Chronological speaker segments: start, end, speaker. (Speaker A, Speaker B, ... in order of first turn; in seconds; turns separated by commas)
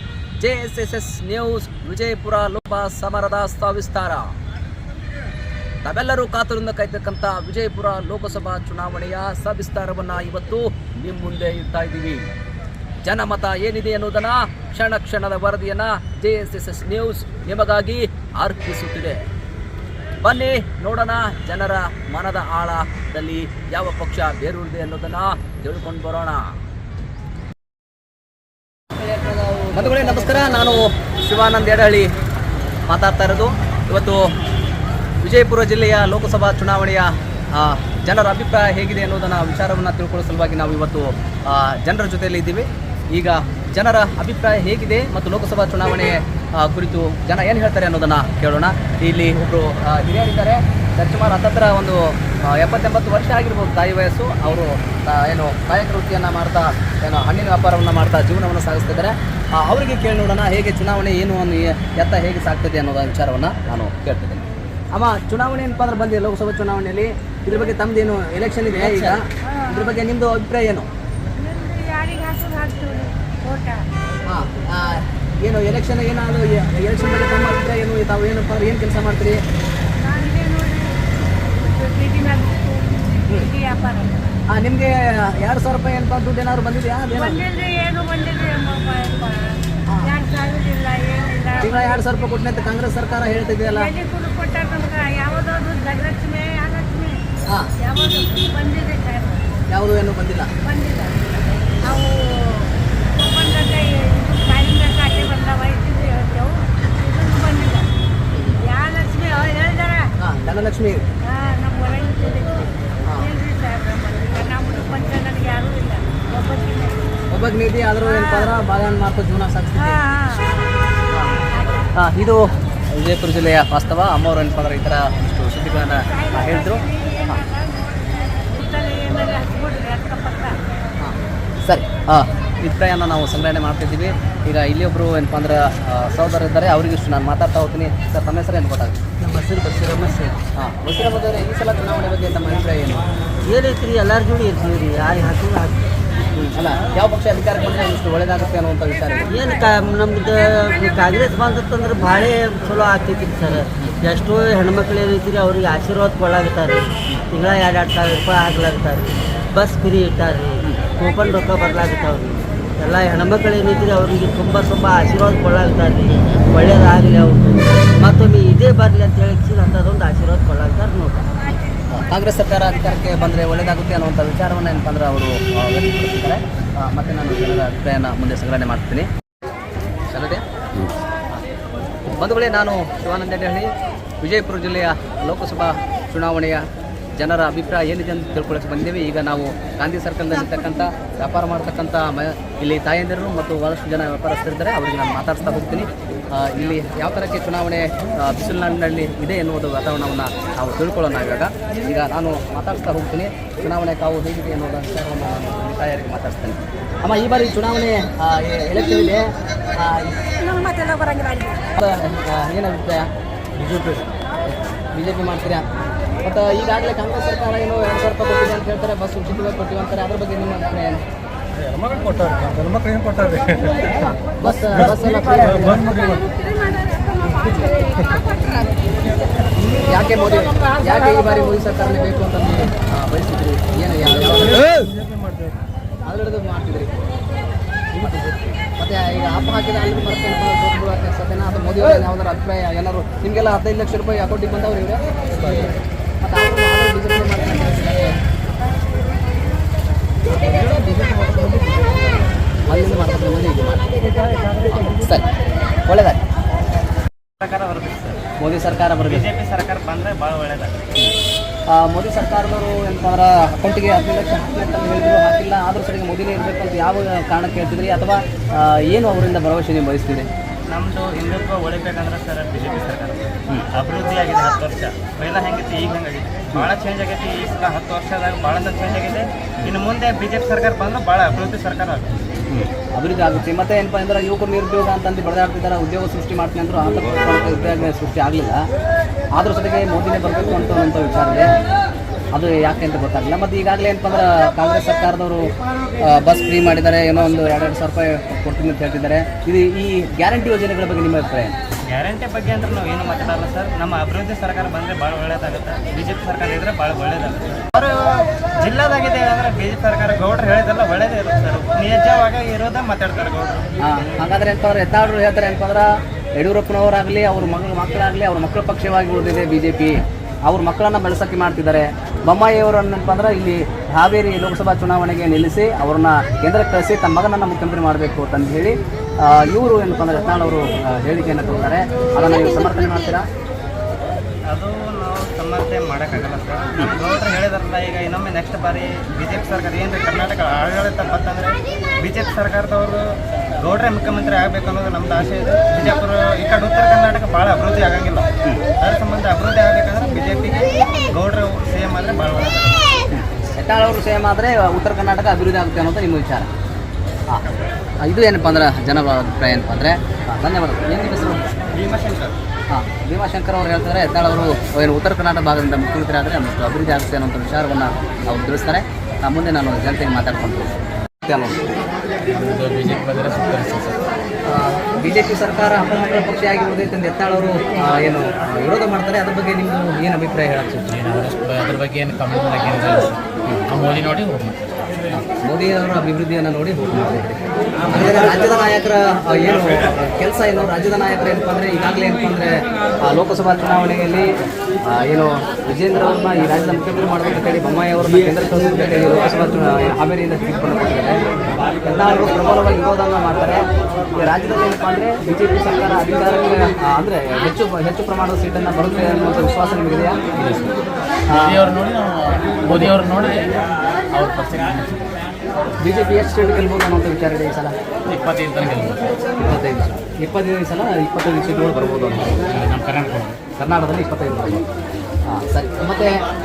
Speaker A: 0.4-4.3, Speaker A: 5.8-12.3, Speaker A: 13.0-19.2, Speaker A: 20.2-26.5, Speaker B: 29.0-29.7, Speaker A: 29.7-32.1, Speaker A: 32.9-34.3, Speaker A: 35.2-70.9, Speaker C: 69.5-69.9, Speaker C: 71.3-73.8, Speaker A: 74.3-79.4, Speaker C: 80.0-84.3, Speaker A: 84.5-87.4, Speaker C: 87.1-92.0, Speaker A: 91.6-93.9, Speaker C: 93.7-97.2, Speaker C: 97.8-99.5, Speaker A: 99.7-100.5, Speaker C: 100.6-107.9, Speaker A: 108.3-108.6, Speaker C: 108.6-110.1, Speaker A: 110.2-111.0, Speaker C: 111.2-117.0, Speaker A: 113.0-113.3, Speaker A: 117.3-120.0, Speaker C: 118.0-118.6, Speaker C: 119.8-120.8, Speaker A: 121.1-121.4, Speaker C: 121.5-121.9, Speaker A: 121.9-127.4, Speaker C: 126.0-130.5, Speaker A: 131.0-139.0, Speaker B: 139.2-140.4, Speaker A: 140.6-143.0, Speaker B: 143.4-145.9, Speaker A: 146.3-149.3, Speaker B: 149.3-171.5, Speaker A: 171.9-179.1, Speaker A: 180.1-181.4, Speaker A: 182.2-183.7, Speaker A: 184.2-186.6, Speaker A: 187.2-210.3, Speaker C: 210.4-211.6, Speaker A: 211.6-213.1, Speaker A: 214.4-215.7, Speaker A: 216.2-221.0, Speaker A: 223.8-226.4, Speaker C: 226.4-227.3, Speaker A: 227.3-228.2, Speaker A: 229.6-234.8, Speaker A: 236.0-237.1, Speaker A: 237.9-248.2, Speaker A: 250.3-252.0, Speaker A: 252.7-253.9, Speaker A: 254.8-255.2, Speaker A: 255.9-256.2, Speaker D: 257.4-258.2, Speaker A: 258.4-259.2, Speaker D: 259.0-260.9, Speaker A: 261.7-270.3, Speaker D: 270.7-282.1, Speaker A: 282.5-288.6, Speaker A: 289.3-291.5, Speaker A: 292.3-295.4, Speaker A: 296.0-301.6, Speaker D: 301.9-308.0, Speaker D: 308.6-313.7, Speaker A: 313.8-333.2, Speaker D: 334.5-343.0, Speaker D: 343.6-348.3, Speaker D: 348.8-352.8, Speaker A: 353.1-356.5, Speaker A: 357.3-361.4, Speaker D: 361.7-362.4, Speaker A: 362.7-370.7, Speaker A: 371.2-371.6, Speaker E: 372.3-373.9, Speaker A: 374.5-380.9, Speaker E: 380.9-383.2, Speaker E: 383.7-384.7, Speaker A: 385.1-387.4, Speaker A: 387.9-394.3, Speaker A: 394.9-401.2, Speaker A: 401.8-403.6, Speaker A: 404.2-410.2, Speaker E: 410.4-410.7, Speaker E: 411.3-415.1, Speaker A: 411.3-411.6, Speaker A: 415.8-417.7, Speaker E: 418.1-419.0, Speaker A: 419.4-422.4, Speaker E: 422.5-423.4, Speaker A: 423.6-424.6, Speaker A: 425.2-426.2